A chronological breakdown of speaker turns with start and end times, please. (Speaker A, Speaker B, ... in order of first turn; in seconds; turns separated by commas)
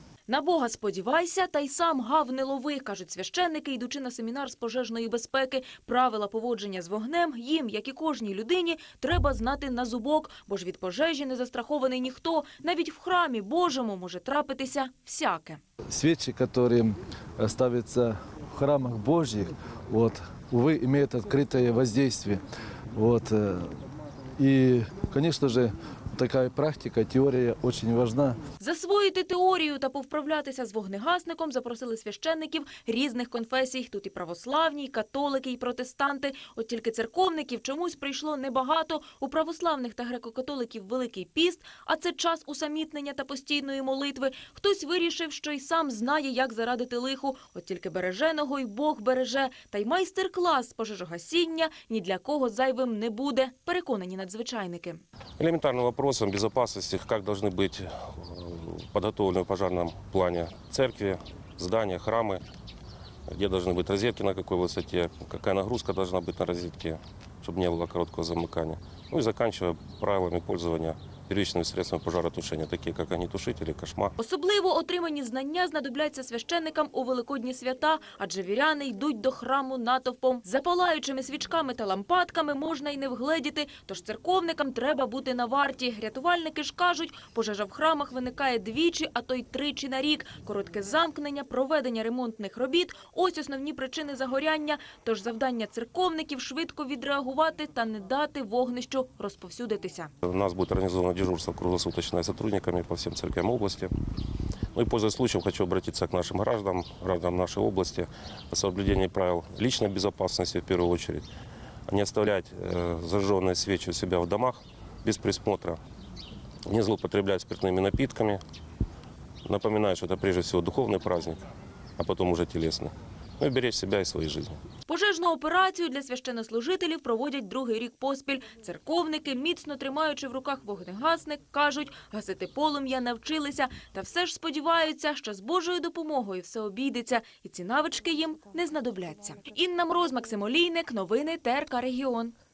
Speaker A: 0.3-15.6, Speaker B: 15.9-22.4, Speaker B: 22.9-23.8, Speaker B: 24.4-28.4, Speaker A: 28.6-55.0, Speaker C: 55.4-62.4, Speaker C: 63.3-74.1, Speaker A: 74.2-100.1, Speaker C: 100.2-103.9, Speaker C: 104.7-111.2, Speaker C: 111.9-115.8, Speaker C: 116.7-118.4, Speaker C: 119.4-121.4, Speaker C: 122.0-124.6, Speaker A: 124.9-142.3